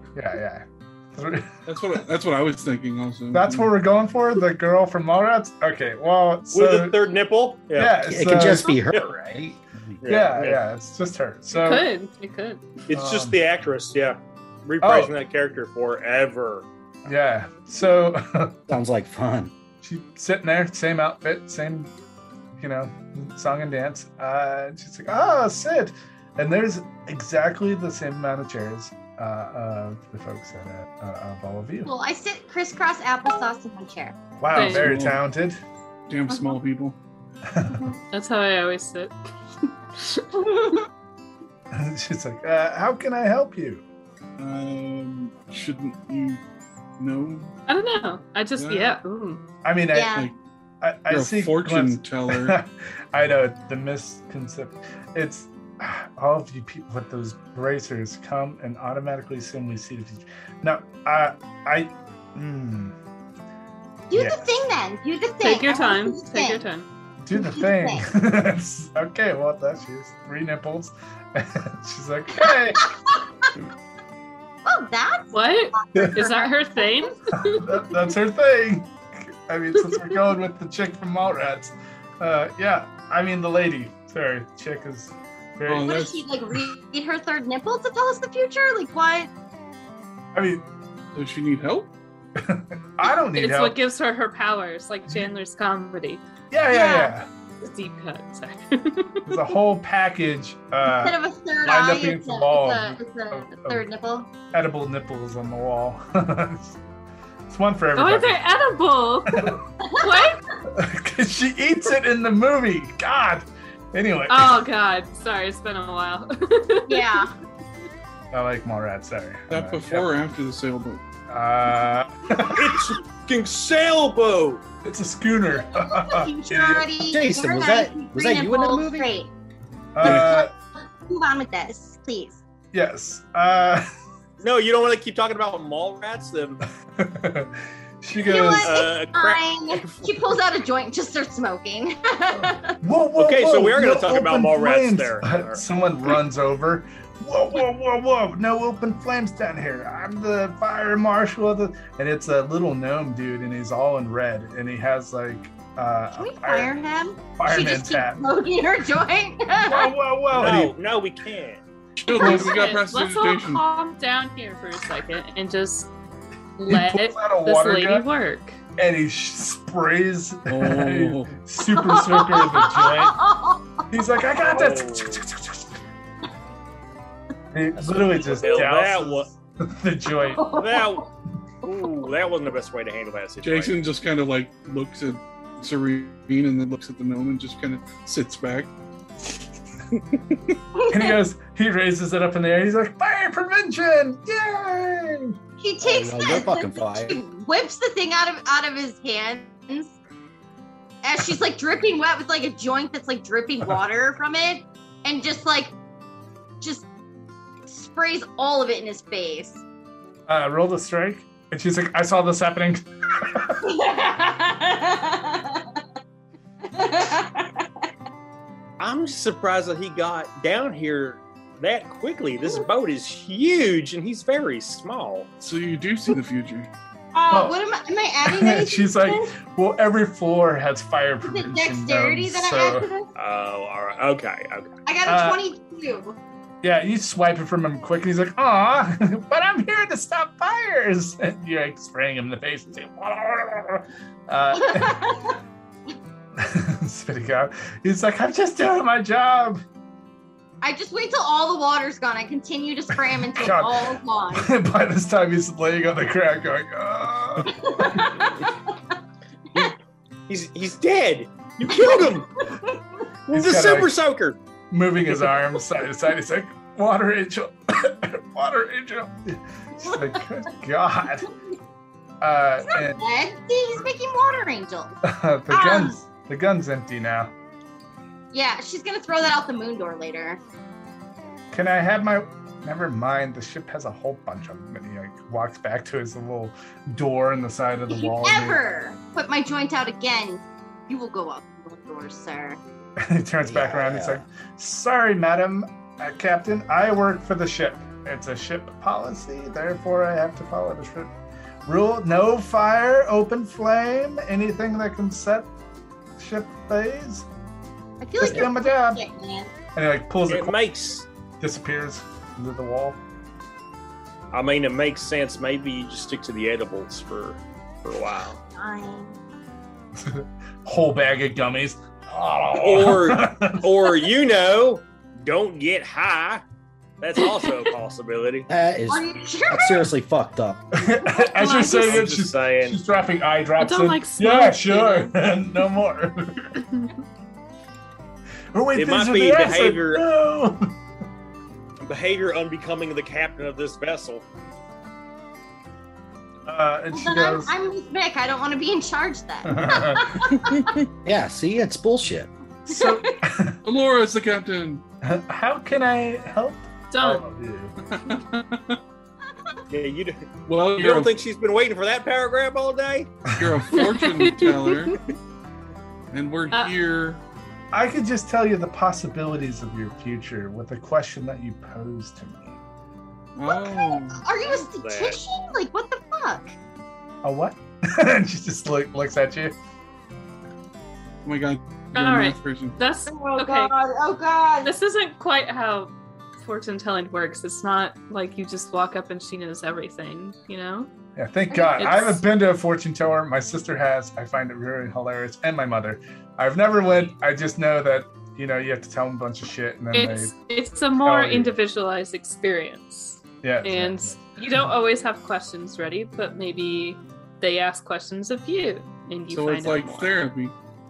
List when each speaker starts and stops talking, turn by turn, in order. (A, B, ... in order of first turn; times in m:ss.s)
0:00.1-0:01.5 A
0:01.6-0:03.7 B
0:03.3-0:07.0 A
0:06.5-0:07.9 C
0:07.7-0:08.8 A
0:08.0-0:10.0 D
0:08.9-0:09.2 C
0:10.0-0:10.6 C
0:10.1-0:11.9 A
0:11.5-0:12.6 E
0:12.9-0:16.6 C
0:12.9-0:13.4 A
0:14.8-0:15.1 A
0:17.0-0:18.6 A
0:18.7-0:19.5 D
0:19.8-0:21.9 A
0:22.6-0:31.9 A
0:31.9-0:34.1 F
0:34.4-0:35.6 A
0:34.5-0:34.9 E
0:34.6-0:35.2 B
0:36.1-0:37.0 B
0:36.3-0:36.6 E
0:37.5-0:37.8 A
0:37.8-0:40.5 E
0:40.4-0:40.8 F
0:41.7-0:43.8 A
0:44.4-0:46.4 B
0:47.0-0:47.5 B
0:47.7-0:49.4 E
0:48.6-0:49.0 B
0:49.6-0:50.2 A
0:49.9-0:50.3 F
0:50.8-1:02.9 A
0:51.1-0:52.6 B
1:04.1-1:06.6 F
1:04.1-1:04.4 A
1:05.4-1:06.9 E
1:07.2-1:12.9 A
1:07.4-1:08.0 F
1:12.4-1:13.5 F
1:14.6-1:17.2 F
1:15.3-1:17.6 E
1:17.4-1:26.1 A
1:25.7-1:26.2 B
1:25.8-1:29.3 F
1:30.3-1:30.6 A
1:31.1-1:31.9 B
1:32.4-1:33.8 A
1:33.3-1:36.2 E
1:36.5-1:37.3 A
1:36.7-1:37.1 F
1:37.6-1:39.3 E
1:39.2-1:43.8 A
1:40.9-1:44.3 F
1:44.5-1:46.8 A
1:47.5-1:48.4 A
1:48.0-1:50.4 E
1:49.8-1:50.3 F
1:50.7-1:54.6 A
1:54.3-1:57.2 E
1:56.9-1:57.3 F
1:58.3-2:00.1 A
1:59.5-2:01.0 B
2:01.3-2:02.9 A
2:02.5-2:04.6 C
2:04.8-2:06.9 A
2:05.7-2:09.3 F
2:07.1-2:09.1 D
2:09.9-2:10.5 A
2:10.0-2:10.5 F
2:11.0-2:12.4 F
2:12.7-2:13.8 A
2:14.4-2:16.6 C
2:17.0-2:18.7 A
2:18.2-2:22.8 F
2:18.6-2:19.4 C
2:22.3-2:36.7 A
2:23.2-2:25.6 C
2:36.1-2:39.9 F
2:37.3-2:38.2 A
2:39.6-2:40.7 A
2:40.3-2:41.6 C
2:42.0-2:43.6 B
2:42.1-2:45.9 E
2:42.2-2:42.5 A
2:46.6-2:48.6 E
2:46.7-2:48.1 A
2:48.8-2:53.2 A
2:50.5-2:51.4 B
2:51.7-2:53.8 F
2:53.9-2:55.7 A
2:54.4-2:55.2 C
2:57.5-3:00.5 A
2:58.2-2:59.3 C
3:00.3-3:01.1 F
3:00.5-3:01.1 C
3:01.6-3:03.7 C
3:03.4-3:08.7 B
3:09.9-3:10.6 B
3:10.8-3:11.2 F
3:10.9-3:15.4 A
3:15.6-3:19.9 F
3:15.8-3:17.2 D
3:21.0-3:25.7 F
3:26.6-3:26.9 F
3:27.7-3:29.6 F
3:30.3-3:33.6 A
3:33.6-3:35.8 F
3:36.6-3:37.9 F
3:38.8-3:45.3 C
3:45.4-3:46.7 B
3:47.1-3:49.3 F
3:47.3-3:47.6 A
3:48.2-3:52.9 A
3:51.2-3:53.1 F
3:53.2-3:54.7 C
3:54.9-3:56.2 F
3:55.0-3:55.4 A
3:56.6-4:05.1 A
4:04.5-4:05.4 F
4:06.4-4:09.6 A
4:10.6-4:14.5 F
4:12.9-4:18.0 A
4:17.5-4:18.5 F
4:20.3-4:22.3 C
4:21.6-4:22.8 F
4:23.3-4:24.4 C
4:23.3-4:23.9 A
4:24.7-4:31.3 A
4:32.2-4:33.0 A
4:32.6-4:34.9 F
4:35.0-4:37.3 A
4:35.5-4:36.0 F
4:38.3-4:40.4 F
4:41.5-4:48.6 A
4:47.9-4:52.6 F
4:53.0-5:01.1 A
4:53.4-4:54.2 D
5:01.6-5:05.5 A
5:06.2-5:07.3 A
5:08.0-5:09.5 F
5:08.2-5:09.0 A
5:09.7-5:10.6 A
5:10.3-5:11.0 C
5:11.4-5:13.0 A
5:14.3-5:18.4 C
5:18.6-5:19.2 F
5:20.0-5:23.9 A
5:22.6-5:26.4 C
5:27.0-5:28.5 C
5:27.2-5:27.5 E
5:28.5-5:30.6 D
5:28.9-5:29.9 F
5:30.8-5:36.5 A
5:31.3-5:32.0 E
5:31.8-5:32.8 C
5:33.6-5:35.1 E
5:38.5-5:40.7 A
5:38.7-5:40.0 C
5:41.8-5:44.2 C
5:46.5-5:47.5 A
5:46.9-5:50.7 F
5:49.4-5:50.4 A
5:51.0-5:52.3 D
5:52.7-5:53.6 A
5:52.7-5:53.2 F
5:53.6-5:54.8 B
5:55.0-5:57.7 A
5:56.9-5:57.2 E
5:58.0-5:58.8 B
5:59.7-6:00.2 C
6:00.4-6:01.1 B
6:00.8-6:03.1 C
6:03.4-6:05.0 B
6:03.7-6:05.0 E
6:06.1-6:07.2 B
6:07.7-6:12.6 A
6:13.3-6:14.2 B
6:13.4-6:16.5 F
6:14.4-6:15.2 C
6:17.2-6:19.6 A
6:21.2-6:22.8 B
6:21.9-6:23.7 E
6:23.1-6:24.7 F
6:24.6-6:30.9 E
6:31.2-6:40.3 A
6:31.5-6:32.2 E
6:39.9-6:50.2 E
6:41.0-6:41.6 A
6:43.4-6:44.7 A
6:49.3-6:50.5 B